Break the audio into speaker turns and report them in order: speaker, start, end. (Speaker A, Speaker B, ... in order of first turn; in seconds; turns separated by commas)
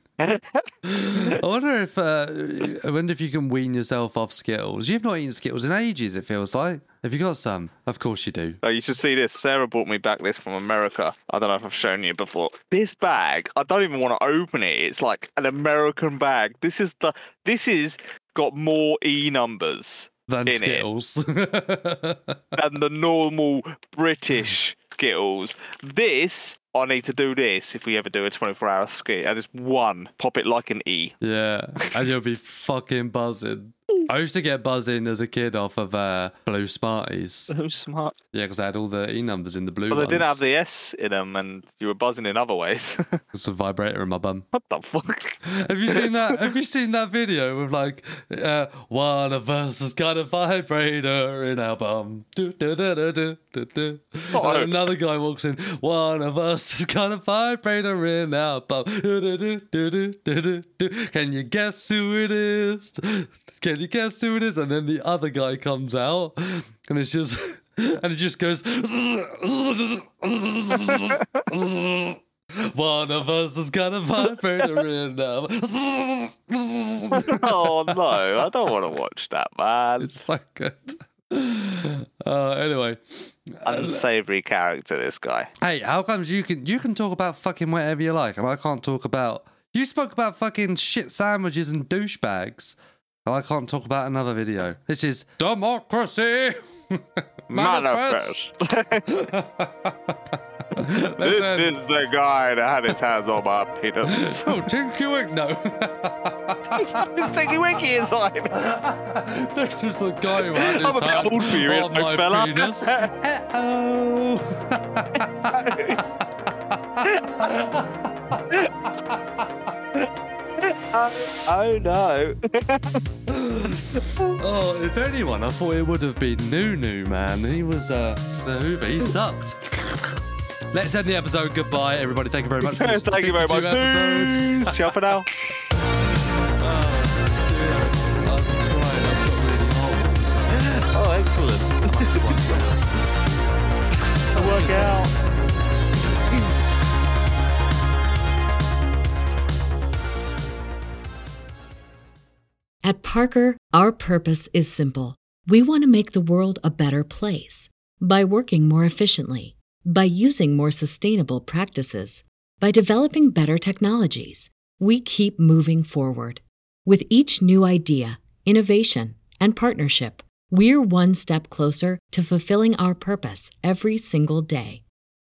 Speaker A: 0.2-1.4, Speaker B: 0.8-8.6, Speaker A: 8.6-20.9, Speaker B: 20.3-22.6, Speaker A: 22.5-31.1, Speaker B: 31.2-37.5, Speaker A: 37.5-38.1, Speaker B: 38.3-40.4, Speaker A: 39.9-43.2, Speaker B: 43.3-44.5, Speaker A: 44.5-46.5, Speaker B: 45.4-78.5, Speaker A: 54.3-54.7, Speaker A: 77.1-80.1, Speaker B: 80.0-84.0, Speaker A: 83.6-85.5, Speaker B: 85.6-98.4, Speaker A: 97.5-99.1, Speaker B: 99.1-101.8, Speaker A: 101.2-104.7, Speaker B: 104.0-107.3, Speaker A: 106.8-108.6, Speaker B: 108.5-119.5, Speaker A: 110.4-113.1, Speaker A: 115.5-116.0, Speaker A: 117.0-117.5, Speaker A: 120.6-123.0, Speaker B: 123.3-130.2, Speaker A: 124.0-124.4, Speaker B: 130.7-134.9, Speaker A: 132.6-135.3, Speaker B: 136.2-141.0, Speaker A: 140.5-142.7, Speaker B: 141.8-142.9, Speaker B: 144.3-145.1, Speaker A: 144.3-145.1, Speaker C: 152.8-174.8